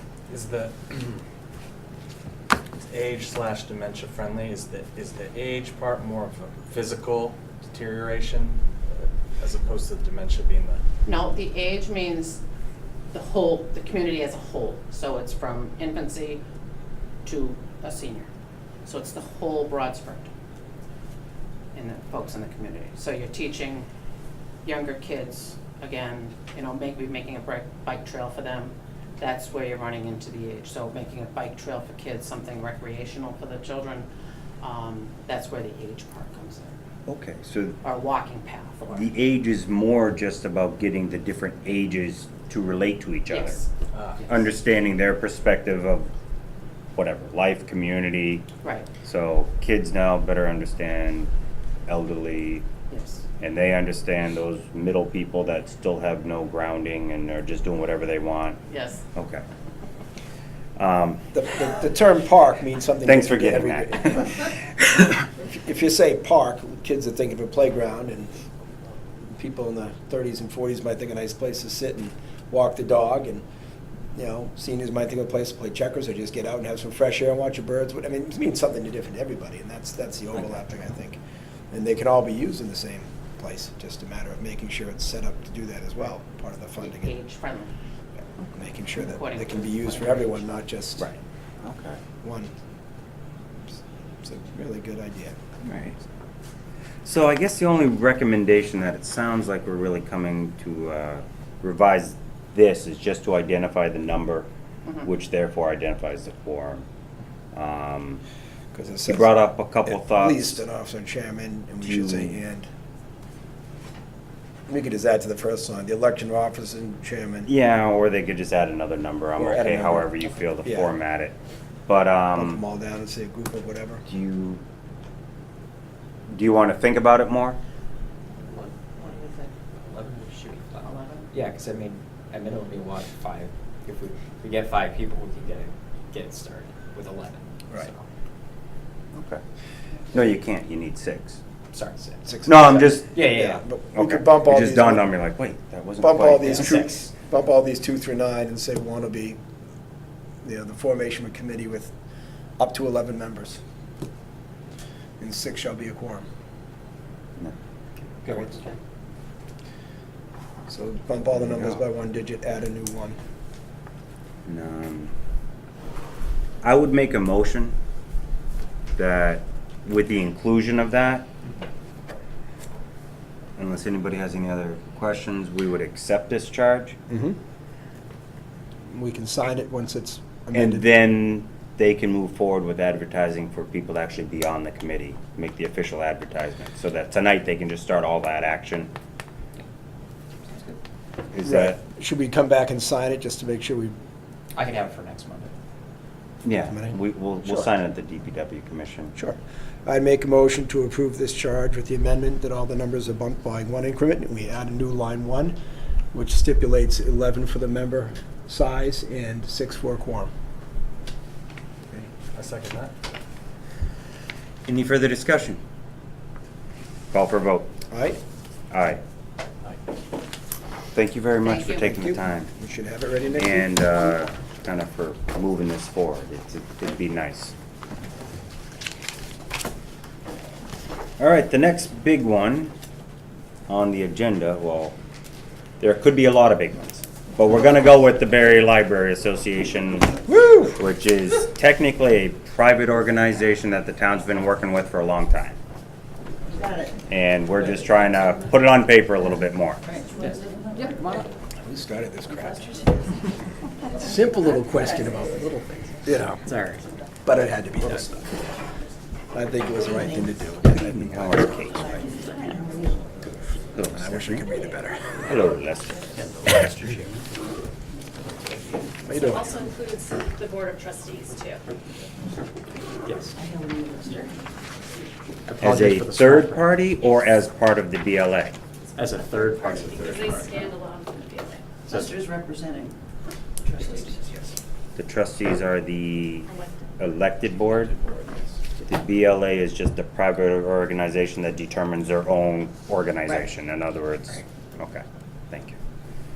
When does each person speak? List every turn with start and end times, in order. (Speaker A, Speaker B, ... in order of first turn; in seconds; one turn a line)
Speaker A: 0.3-1.2
Speaker A: 2.9-10.8
Speaker B: 11.0-12.4
Speaker B: 13.1-16.4
Speaker B: 17.2-18.3
Speaker B: 18.9-20.3
Speaker B: 21.7-23.9
Speaker B: 24.6-34.1
Speaker B: 34.6-36.8
Speaker C: 37.0-37.8
Speaker B: 37.8-39.1
Speaker C: 38.9-43.6
Speaker B: 43.3-43.7
Speaker A: 43.9-44.2
Speaker C: 44.2-46.1
Speaker C: 46.9-48.4
Speaker B: 48.6-48.9
Speaker C: 49.0-51.3
Speaker C: 51.9-52.6
Speaker B: 52.9-53.2
Speaker C: 53.4-58.6
Speaker B: 58.7-59.0
Speaker C: 59.1-59.4
Speaker C: 60.8-61.2
Speaker D: 61.3-64.6
Speaker C: 63.0-64.5
Speaker D: 65.4-68.3
Speaker D: 69.3-73.4
Speaker D: 74.1-87.1
Speaker B: 86.8-87.7
Speaker D: 88.5-91.1
Speaker B: 89.0-90.5
Speaker C: 91.0-92.0
Speaker D: 92.2-92.5
Speaker D: 94.2-95.4
Speaker C: 95.6-96.0
Speaker C: 97.0-104.5
Speaker C: 105.0-106.8
Speaker C: 107.5-108.2
Speaker D: 108.7-112.7
Speaker C: 109.0-110.6
Speaker C: 111.8-112.4
Speaker D: 114.7-117.5
Speaker C: 117.5-121.3
Speaker D: 119.4-120.9
Speaker C: 121.9-122.6
Speaker D: 122.3-124.0
Speaker C: 124.0-124.6
Speaker C: 126.3-127.6
Speaker E: 128.5-138.0
Speaker B: 130.8-131.3
Speaker C: 139.1-139.4
Speaker C: 140.1-141.4
Speaker E: 141.7-143.6
Speaker D: 142.2-145.1
Speaker C: 142.4-143.2
Speaker C: 143.9-146.7
Speaker D: 146.0-149.4
Speaker E: 146.4-147.1
Speaker D: 150.4-151.9
Speaker D: 152.6-153.6
Speaker D: 155.2-156.2
Speaker E: 158.2-158.7
Speaker D: 158.3-158.6
Speaker D: 160.7-163.2
Speaker C: 161.3-161.8
Speaker C: 164.4-165.1
Speaker C: 166.6-167.7
Speaker C: 169.0-171.3
Speaker C: 173.6-177.0
Speaker D: 177.1-177.4
Speaker D: 178.9-180.9
Speaker C: 180.5-188.9
Speaker E: 190.5-190.8
Speaker C: 191.3-191.8
Speaker D: 191.4-193.9
Speaker E: 194.5-195.5
Speaker C: 196.4-199.1
Speaker D: 196.7-197.7
Speaker D: 199.1-205.6
Speaker D: 206.1-210.3
Speaker A: 212.0-212.9
Speaker C: 214.7-215.6
Speaker C: 217.1-217.7
Speaker D: 217.9-218.2
Speaker C: 218.7-219.0
Speaker C: 220.9-222.5
Speaker B: 221.4-221.8
Speaker D: 221.8-223.8
Speaker C: 223.3-227.5
Speaker C: 231.2-232.7
Speaker C: 233.7-235.0
Speaker C: 235.8-245.6
Speaker D: 240.3-240.7
Speaker C: 247.1-249.8
Speaker D: 251.6-252.8
Speaker D: 253.9-256.4
Speaker E: 256.4-256.8
Speaker D: 257.2-258.3
Speaker D: 259.3-262.1
Speaker C: 260.7-262.0
Speaker C: 263.7-264.4
Speaker D: 263.9-265.4
Speaker C: 265.3-267.2
Speaker D: 269.1-269.5
Speaker F: 269.1-271.6
Speaker E: 273.0-273.4
Speaker E: 275.5-276.7
Speaker C: 275.6-278.6
Speaker E: 279.0-280.7
Speaker F: 279.8-281.6
Speaker E: 281.9-282.2
Speaker C: 284.9-286.5
Speaker C: 287.0-288.0
Speaker C: 288.9-295.8